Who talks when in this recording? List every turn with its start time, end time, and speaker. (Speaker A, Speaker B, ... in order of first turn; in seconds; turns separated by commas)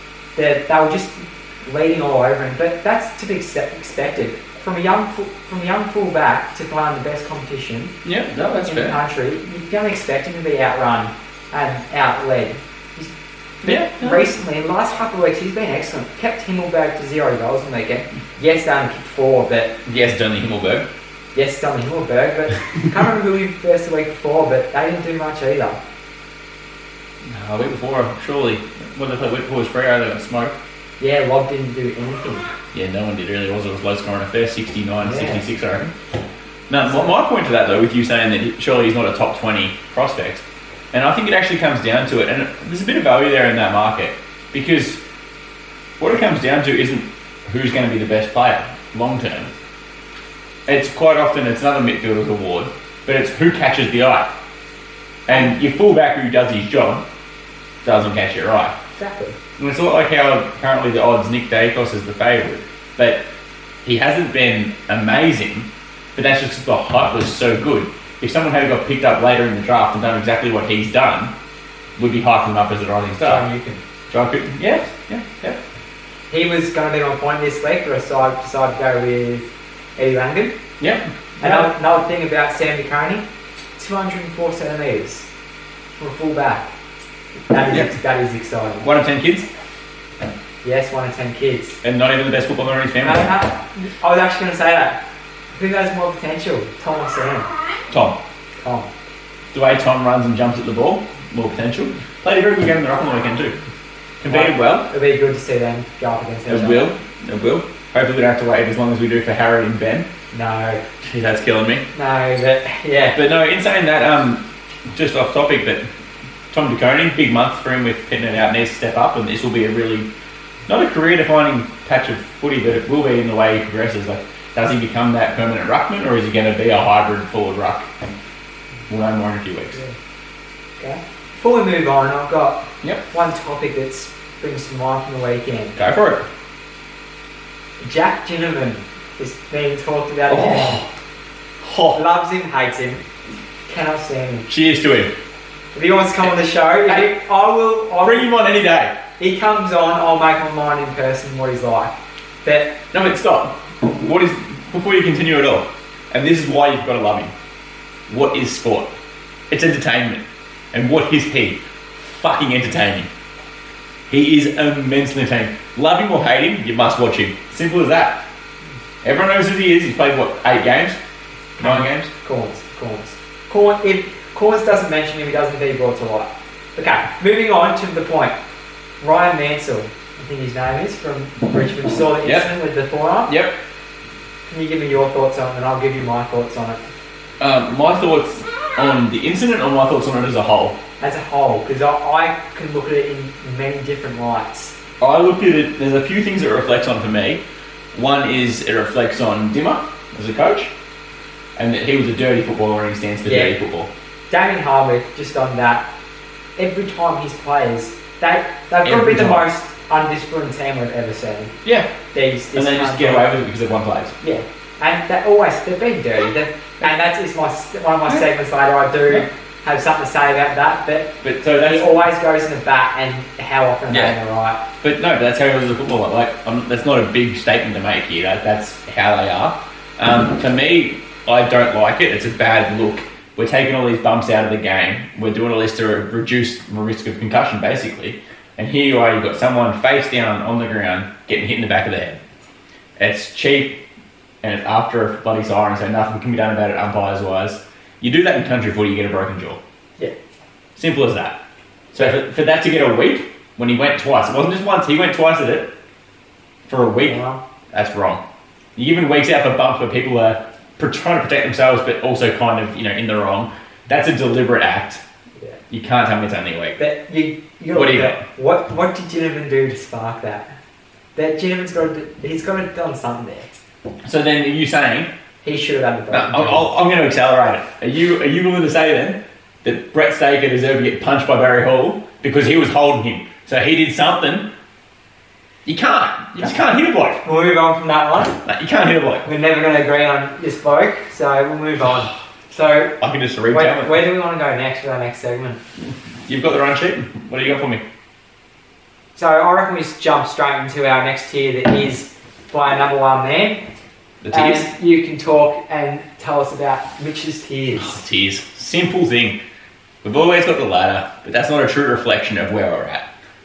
Speaker A: 0.3-19.7, Speaker B: 8.0-9.0, Speaker B: 13.7-14.2, Speaker B: 19.9-20.9, Speaker A: 21.3-25.8, Speaker B: 27.2-30.5, Speaker A: 31.0-32.5, Speaker B: 32.7-35.9, Speaker A: 35.0-35.5, Speaker B: 36.7-45.0, Speaker A: 36.8-37.1, Speaker B: 46.0-49.5, Speaker B: 50.7-54.3, Speaker B: 55.3-57.0, Speaker A: 55.3-55.5, Speaker B: 57.8-58.7, Speaker A: 59.0-59.4, Speaker B: 59.6-63.2, Speaker B: 63.8-71.3, Speaker B: 72.0-73.4, Speaker A: 73.2-73.8, Speaker B: 74.1-75.6, Speaker A: 76.3-80.5, Speaker B: 80.8-81.7, Speaker A: 81.4-83.2, Speaker A: 83.8-85.3, Speaker A: 86.0-86.7, Speaker A: 87.5-88.9, Speaker B: 88.8-89.5, Speaker A: 90.6-91.8, Speaker B: 91.8-93.3, Speaker A: 93.0-95.0, Speaker A: 95.5-97.5, Speaker B: 97.9-98.2, Speaker A: 98.6-98.9, Speaker B: 99.5-103.6, Speaker B: 104.2-104.9, Speaker A: 104.3-106.9, Speaker B: 106.5-110.1, Speaker A: 110.3-110.8, Speaker B: 111.0-111.8, Speaker A: 111.9-113.2, Speaker B: 113.1-115.8, Speaker B: 116.5-120.1, Speaker B: 120.7-127.9, Speaker B: 128.9-129.8, Speaker A: 130.8-135.8, Speaker B: 135.8-136.2, Speaker A: 137.8-140.8, Speaker B: 140.3-140.9, Speaker B: 141.6-142.0, Speaker A: 141.9-143.0, Speaker A: 143.7-144.5, Speaker B: 144.5-145.1, Speaker A: 145.7-148.3, Speaker B: 148.0-149.0, Speaker A: 149.2-152.8, Speaker B: 152.9-157.3, Speaker B: 158.1-158.9, Speaker B: 159.5-163.1, Speaker B: 164.1-168.2, Speaker B: 169.0-171.0, Speaker A: 171.6-178.3, Speaker B: 171.6-172.1, Speaker A: 179.0-183.3, Speaker B: 182.2-182.5, Speaker B: 183.3-183.6, Speaker A: 184.5-186.8, Speaker B: 187.4-190.8, Speaker A: 191.0-194.7, Speaker B: 195.0-197.4, Speaker B: 197.9-200.7, Speaker B: 201.6-203.9, Speaker A: 203.2-203.5, Speaker A: 204.3-205.9, Speaker A: 206.6-211.6, Speaker B: 208.8-209.4, Speaker B: 211.6-211.9, Speaker A: 212.1-213.3, Speaker B: 212.5-214.1, Speaker A: 214.2-224.6, Speaker B: 221.2-222.0, Speaker B: 223.9-224.2, Speaker B: 224.8-242.2, Speaker B: 243.0-243.8, Speaker B: 244.4-249.6, Speaker B: 250.8-251.4, Speaker B: 251.9-255.7, Speaker B: 256.7-257.2, Speaker A: 257.0-257.4, Speaker B: 257.7-258.2, Speaker B: 258.8-265.0, Speaker B: 265.7-266.8, Speaker A: 266.8-270.5, Speaker B: 267.7-268.2, Speaker A: 271.1-273.5, Speaker B: 274.0-275.1, Speaker A: 275.4-276.6, Speaker B: 276.1-284.5, Speaker B: 285.6-287.2, Speaker A: 287.2-288.4, Speaker B: 288.4-289.3, Speaker A: 289.2-295.6, Speaker B: 293.0-294.0, Speaker B: 296.2-297.8, Speaker A: 299.1-303.6, Speaker B: 304.2-304.7, Speaker A: 304.3-308.0, Speaker B: 307.7-309.4, Speaker B: 310.0-313.1